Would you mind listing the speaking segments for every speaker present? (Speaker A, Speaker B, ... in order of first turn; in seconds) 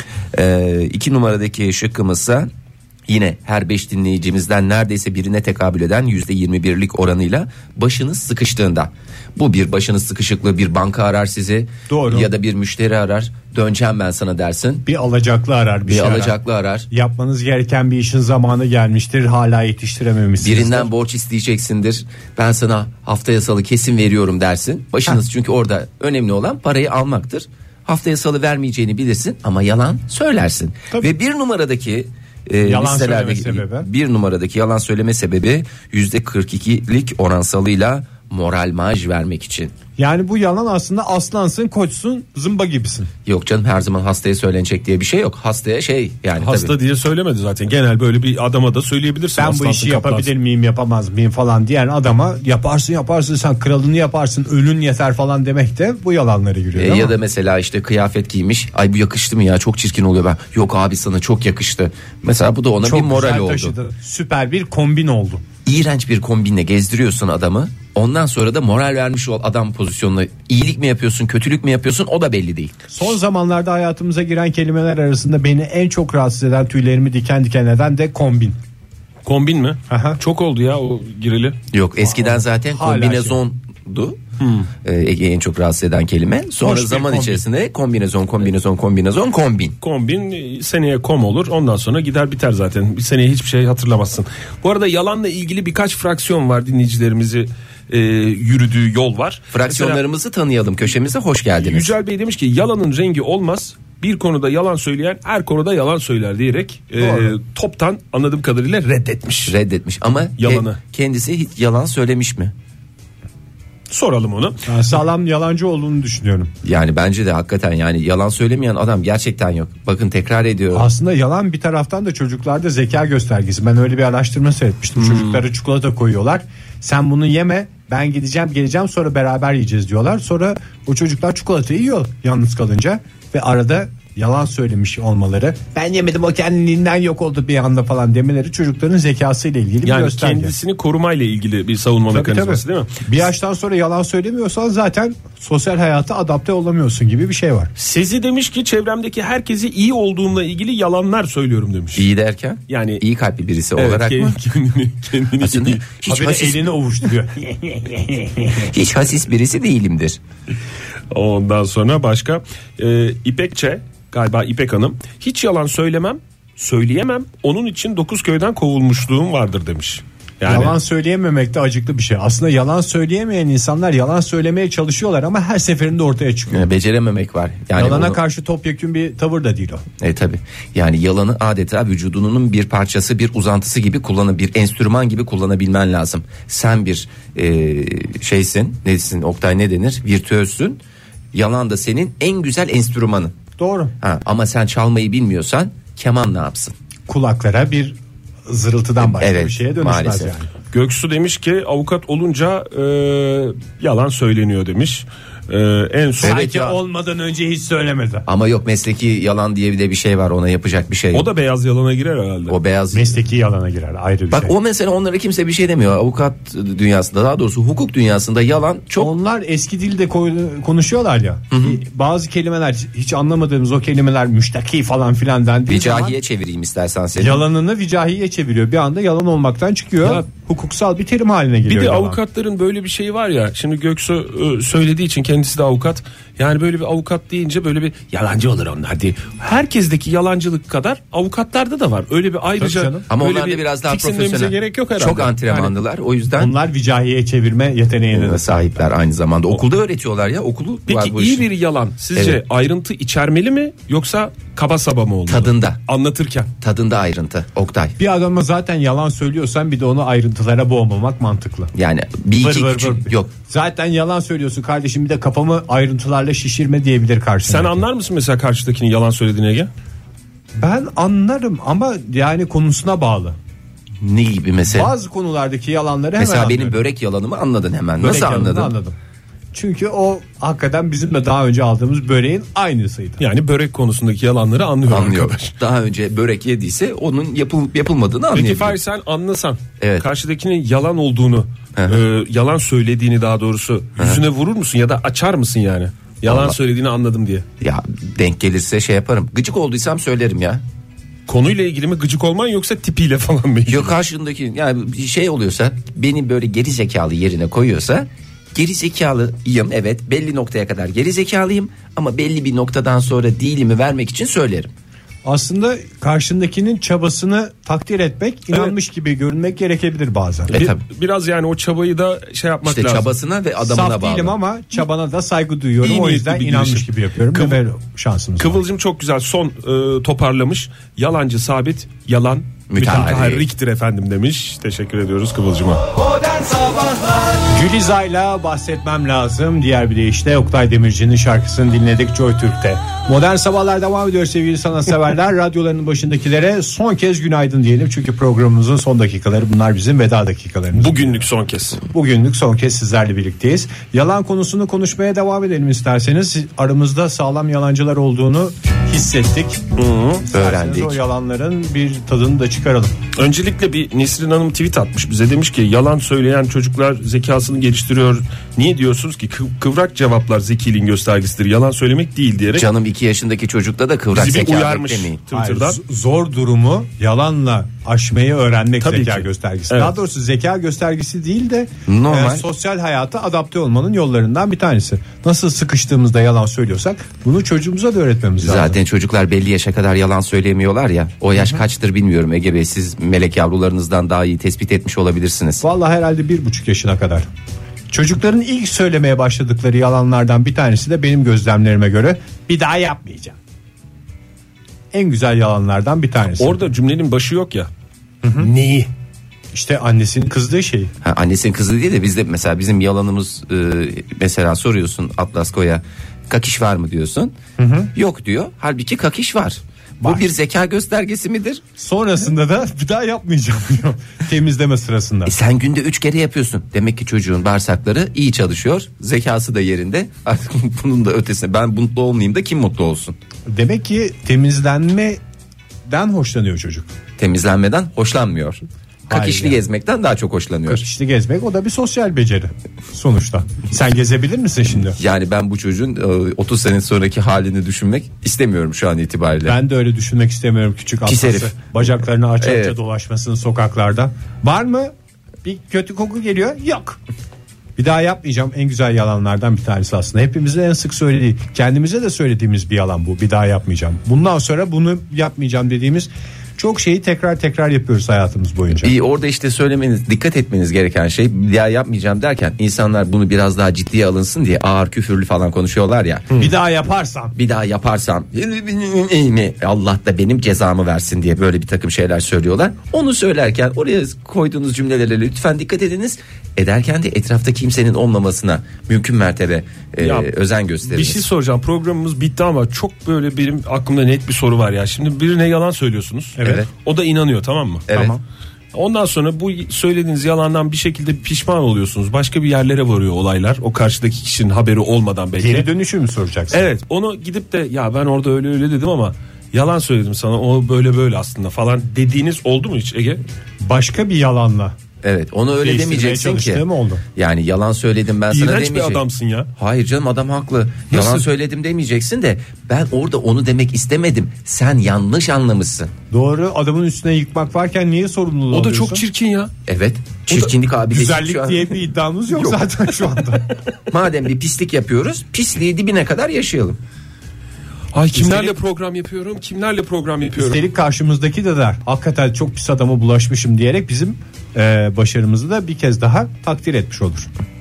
Speaker A: 0.3-2.5, 3.1-14.8, 15.9-16.9, 20.4-39.7, 43.3-46.7, 56.8-63.7, 65.7-72.8, 81.7-84.2, 84.8-89.8, 99.5-101.9, 109.5-112.5, 116.6-120.9, 151.9-154.4, 155.4-156.7, 158.5-160.2, 176.5-178.2, 180.0-190.8, 191.3-193.4, 194.0-196.7, 199.0-200.3, 206.2-206.8, 208.3-211.3, 212.5-213.2, 214.3-219.1, 221.5-221.8, 225.7-227.4, 243.1-246.5, 248.1-251.4, 255.3-255.8, 256.6-257.9, 261.7-263.3, 274.0-274.9, 276.2-278.7, 284.9-288.8, 289.8-290.1, 296.3-296.6, 297.6-300.6, 303.7-314.7, 320.5-320.8, 322.7-324.3, 332.7-333.4, 360.3-361.0, 372.6-375.2, 381.9-382.4, 388.4-395.6, 411.0-417.4, 417.9-421.6, 425.2-433.2, 437.2-440.8, 444.9-449.6, 451.1-451.6, 452.4-452.7, 468.8-476.5, 477.3-491.2, 496.4-496.7, 497.9-498.2, 515.0-516.6, 517.2-519.0, 519.5-525.9, 529.7-531.7, 533.9-536.8
Speaker B: 11.9-12.3, 14.9-16.4, 16.9-20.9, 32.6-33.9, 40.0-43.1, 49.4-57.1, 62.8-65.4, 72.9-78.6, 79.9-80.2, 82.0-83.4, 86.6-87.4, 107.0-107.4, 114.7-116.5, 120.7-140.6, 142.1-147.7, 156.1-158.3, 170.4-176.7, 177.7-179.8, 193.6-193.9, 197.1-200.5, 206.2-208.3, 212.9-214.5, 219.0-226.2, 227.2-232.2, 242.6-243.0, 246.3-248.9, 258.0-261.7, 262.4-267.8, 270.6-273.4, 274.7-276.8, 278.0-278.9, 279.5-283.2, 315.2-320.6, 323.6-328.6, 336.4-336.7, 337.4-351.2, 351.9-359.6, 360.2-362.9, 375.3-388.8, 391.3-391.6, 395.6-397.3, 397.9-403.4, 404.9-406.6, 408.2-408.5, 409.5-410.9, 417.6-417.9, 421.8-425.3, 433.4-435.2, 435.9-436.9, 439.1-439.6, 440.7-445.0, 449.4-454.9, 455.4-457.0, 457.8-468.9, 476.4-477.3, 496.4-496.7, 497.9-498.2, 505.4-506.7, 513.6-514.7, 515.6-517.0, 526.1-529.0, 530.3-533.5, 538.1-538.5, 540.3-547.3
Speaker C: 46.4-50.3, 79.2-81.6, 84.4-84.7, 89.8-100.0, 101.6-109.5, 110.4-110.8, 113.9-114.6, 125.0-125.4, 139.8-142.9, 147.8-152.1, 152.7-153.0, 153.8-155.8, 161.1-170.7, 200.7-206.4, 211.1-212.6, 231.7-245.7, 250.9-256.5, 267.4-269.7, 283.2-285.6, 288.3-297.4, 301.3-303.9, 320.5-323.1, 325.8-327.6, 328.4-335.8, 350.7-351.8, 359.7-360.2, 363.2-372.7, 374.1-375.8, 378.8-379.9, 406.4-407.7, 408.4-408.9, 490.0-490.3, 490.9-497.9, 498.7-505.7, 506.5-513.2, 518.3-519.5, 520.9-521.3, 528.5-529.5, 537.9-540.6